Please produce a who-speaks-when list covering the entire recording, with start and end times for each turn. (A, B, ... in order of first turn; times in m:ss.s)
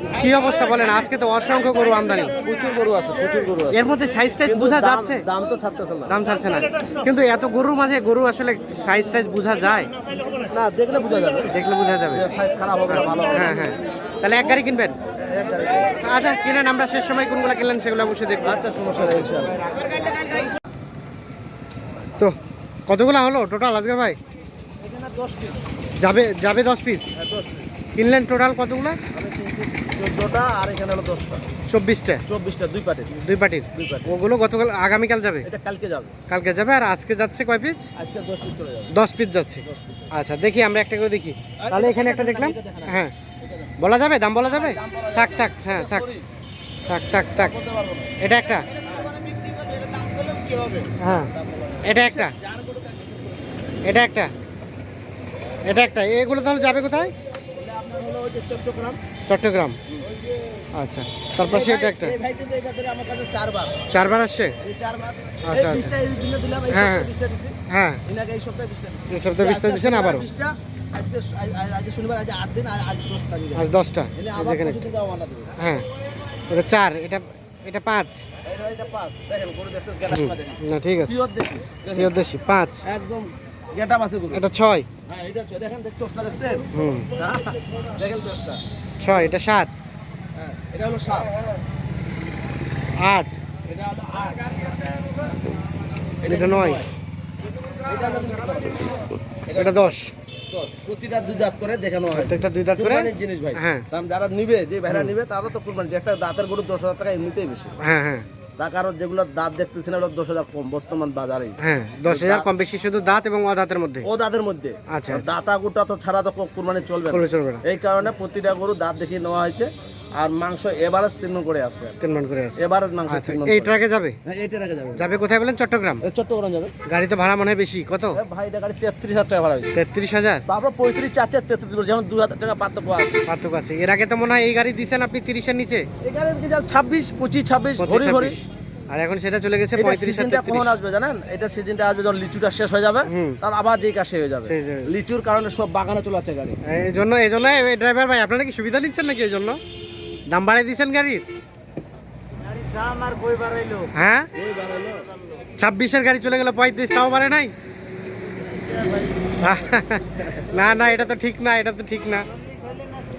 0:00.2-0:02.4 A
0:02.4-0:03.9 B
0:03.7-0:05.2 A
0:04.4-0:06.2 B
0:06.1-0:09.9 A
0:10.5-0:11.5 B
0:11.5-0:12.2 A
0:12.1-0:13.6 B
0:12.9-0:15.0 A
0:15.2-0:16.0 B
0:16.0-0:18.6 A
0:18.4-0:19.6 B
0:22.9-0:24.2 A
0:24.8-0:25.6 B
0:26.0-0:27.1 A
0:27.1-0:27.7 B
0:28.0-0:29.0 A
0:29.1-0:31.4 B
0:31.7-0:32.2 A
0:32.3-0:33.2 B
0:33.2-0:35.5 A
0:33.7-0:34.1 B
0:35.4-0:36.1 B
0:36.3-0:37.9 A
0:38.0-0:38.9 B
0:38.9-0:43.1 A
0:39.6-0:40.1 B
0:41.6-0:43.7 B
0:43.8-0:46.1 A
0:44.4-0:46.2 B
0:46.9-0:47.5 A
0:47.4-0:48.1 B
0:48.2-0:48.6 A
0:48.9-0:49.4 B
0:50.2-0:53.5 B
0:51.0-0:51.3 A
0:51.8-0:52.3 A
0:53.8-0:54.3 A
0:55.7-0:57.1 A
0:57.6-0:59.0 B
0:59.3-0:59.8 A
1:00.8-1:02.2 A
1:01.4-1:03.8 B
1:03.9-1:04.6 A
1:04.6-1:15.6 B
1:05.5-1:05.9 A
1:06.7-1:07.1 A
1:07.7-1:08.0 A
1:09.1-1:10.2 A
1:13.6-1:14.8 A
1:15.6-1:15.8 A
1:16.5-1:18.2 A
1:18.4-1:22.2 B
1:20.1-1:21.2 A
1:22.0-1:22.8 A
1:22.8-1:24.4 B
1:24.3-1:24.9 A
1:25.1-1:28.6 B
1:26.7-1:27.1 A
1:29.0-1:29.7 A
1:30.4-1:31.4 B
1:33.0-1:33.4 A
1:33.7-1:34.6 B
1:36.2-1:36.9 B
1:36.3-1:36.8 A
1:37.8-1:39.9 B
1:39.6-1:40.1 A
1:40.5-1:47.7 B
1:42.2-1:43.8 A
1:47.8-1:48.3 A
1:48.6-1:52.5 B
1:51.6-1:54.1 A
1:54.0-2:02.0 B
1:54.9-1:55.2 A
1:57.1-1:57.6 A
2:02.0-2:04.2 A
2:02.6-2:03.7 B
2:04.2-2:05.0 B
2:05.0-2:06.0 A
2:06.0-2:06.7 B
2:06.9-2:08.2 A
2:08.1-2:09.8 B
2:09.7-2:10.4 A
2:10.5-2:13.2 B
2:13.3-2:15.9 A
2:16.0-2:18.4 B
2:17.8-2:20.7 A
2:19.8-2:26.6 B
2:23.1-2:23.4 A
2:24.5-2:24.9 A
2:26.7-2:29.6 A
2:30.3-2:31.2 A
2:32.8-2:35.2 B
2:33.9-2:34.3 A
2:35.6-2:37.5 A
2:38.7-2:39.3 B
2:39.4-2:42.2 A